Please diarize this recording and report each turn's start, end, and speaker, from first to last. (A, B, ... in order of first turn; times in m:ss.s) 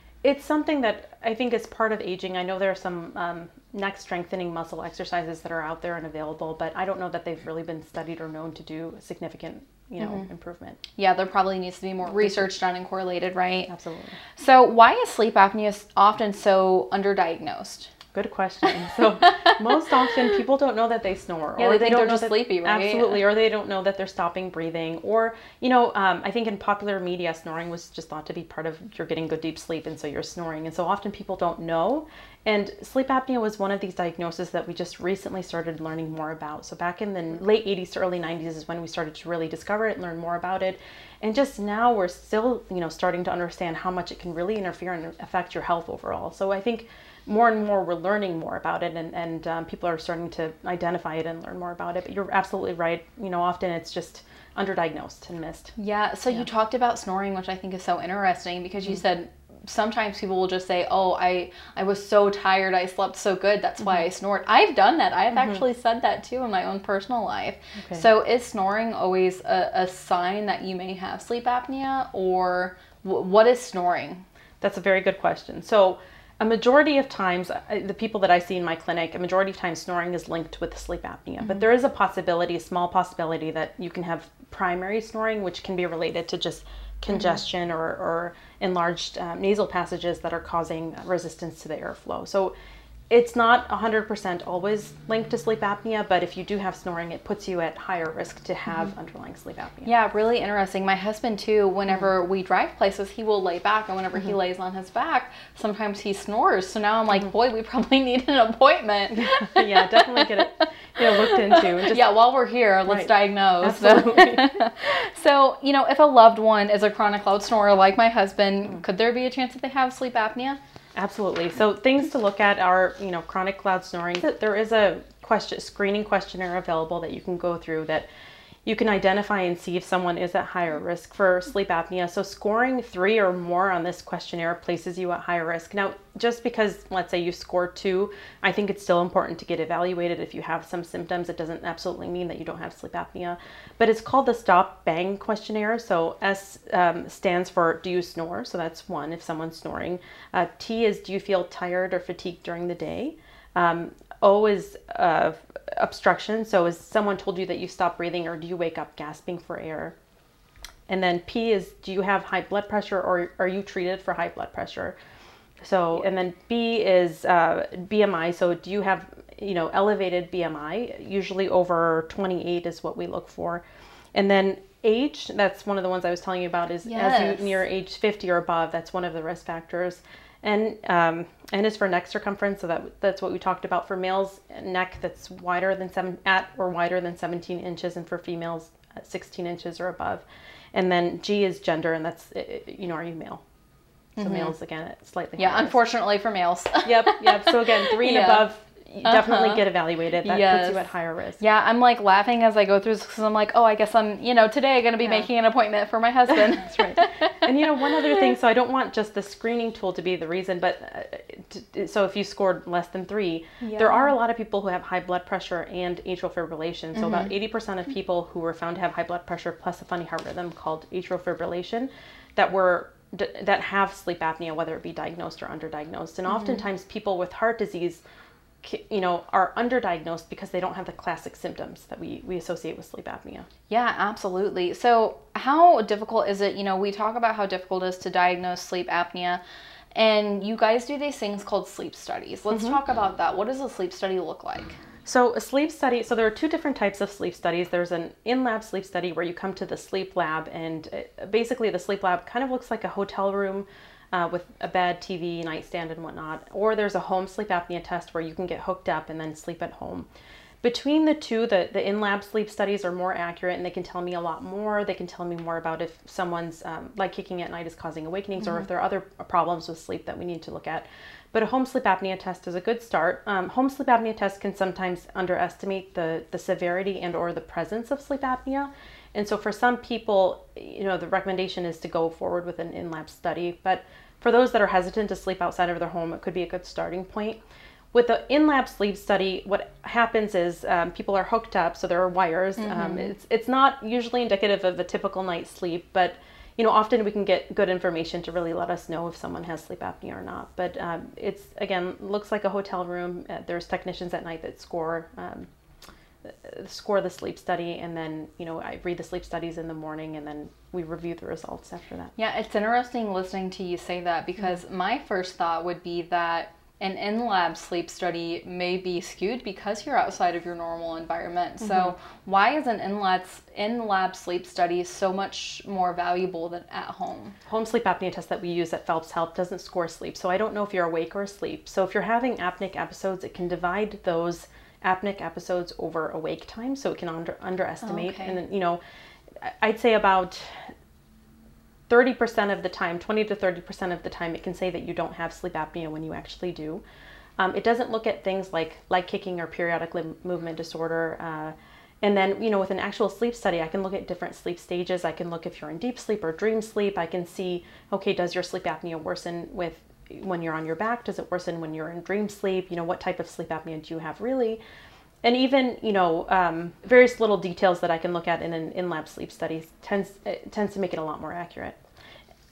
0:00.2-0:10.8 A
0:10.0-0:10.3 B
0:11.0-0:13.7 B
0:12.1-0:12.5 A
0:13.7-0:14.2 A
0:14.4-0:17.9 B
0:18.1-0:55.7 A
0:19.2-0:19.6 B
0:21.6-0:23.3 B
0:55.8-1:14.2 B
1:05.3-1:05.6 A
1:07.8-1:08.0 A
1:14.6-1:32.5 A
1:27.1-1:27.4 B
1:33.1-1:39.9 A
1:39.8-1:50.5 B
1:49.2-1:52.1 A
1:51.0-2:00.6 B
1:52.9-1:54.6 A
2:01.0-2:08.1 A
2:08.7-2:40.0 A
2:40.9-2:45.0 A
2:45.6-2:53.6 A
2:54.1-3:13.4 A
2:56.9-2:57.6 B
3:14.2-3:14.5 B
3:14.2-3:15.8 A
3:15.4-3:18.5 B
3:16.8-3:21.4 A
3:19.0-3:19.7 B
3:20.2-3:28.1 B
3:25.0-3:25.3 A
3:26.3-3:48.0 A
3:33.6-3:34.1 B
3:37.0-3:37.3 B
3:46.3-3:46.6 B
3:48.6-3:53.5 A
3:53.7-3:59.4 B
4:00.0-4:04.8 B
4:02.5-4:02.8 A
4:05.0-4:20.1 A
4:20.6-4:47.4 A
4:28.4-4:28.7 B
4:47.9-5:05.5 A
4:52.6-4:53.1 B
5:06.2-5:12.2 A
5:12.2-5:27.4 B
5:21.6-5:21.9 A
5:27.5-5:38.8 A
5:37.8-5:38.4 B
5:39.4-5:40.7 A
5:41.9-5:46.8 A
5:47.4-6:04.6 A
6:05.2-6:11.8 A